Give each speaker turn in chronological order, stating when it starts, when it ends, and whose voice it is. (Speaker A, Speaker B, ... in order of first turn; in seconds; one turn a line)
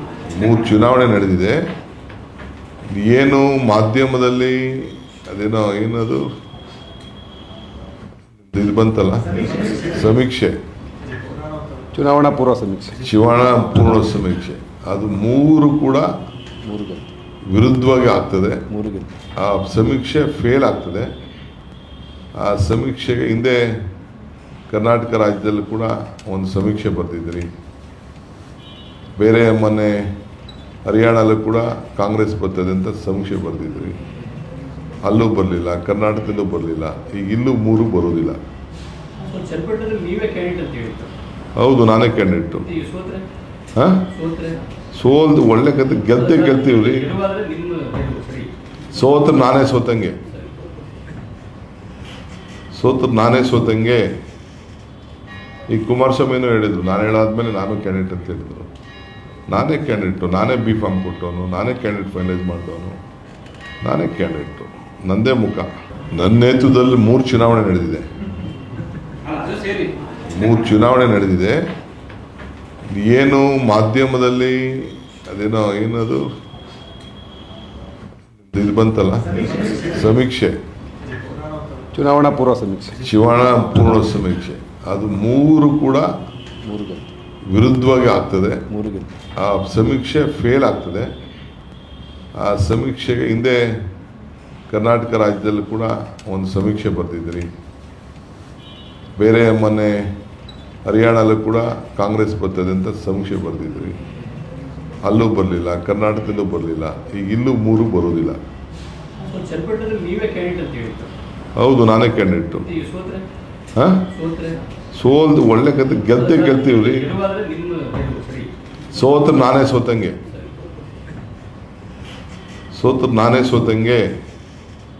Speaker A: 0.2-1.6
Speaker A: 2.9-6.2
Speaker A: 8.4-10.6
Speaker B: 11.9-13.1
Speaker A: 13.0-16.1
Speaker B: 16.6-17.1
Speaker A: 17.5-18.6
Speaker B: 18.7-19.1
Speaker A: 19.4-21.1
Speaker A: 22.4-23.8
Speaker A: 24.7-27.5
Speaker A: 29.1-30.1
Speaker A: 30.9-34.0
Speaker A: 35.0-38.4
Speaker C: 39.2-41.1
Speaker A: 41.5-42.7
Speaker C: 42.6-43.2
Speaker A: 43.8-44.1
Speaker C: 44.1-44.6
Speaker A: 44.9-47.2
Speaker C: 46.1-48.5
Speaker A: 48.9-50.2
Speaker A: 52.7-54.1
Speaker A: 55.7-58.7
Speaker A: 59.5-63.0
Speaker A: 63.8-68.0
Speaker C: 69.3-69.9
Speaker A: 70.2-71.6
Speaker A: 72.9-76.2
Speaker A: 78.4-80.6
Speaker B: 81.9-83.1
Speaker A: 83.0-86.1
Speaker B: 86.6-87.1
Speaker A: 87.5-88.7
Speaker B: 88.7-89.1
Speaker A: 89.4-91.1
Speaker A: 92.4-93.8
Speaker A: 94.7-97.5
Speaker A: 99.2-100.1
Speaker A: 100.8-104.0
Speaker A: 105.0-108.4
Speaker C: 109.2-111.1
Speaker A: 111.5-112.7
Speaker C: 112.6-113.2
Speaker A: 113.7-114.1
Speaker C: 114.1-114.6
Speaker A: 114.9-117.2
Speaker C: 116.1-118.5
Speaker A: 118.9-120.2
Speaker A: 122.7-124.1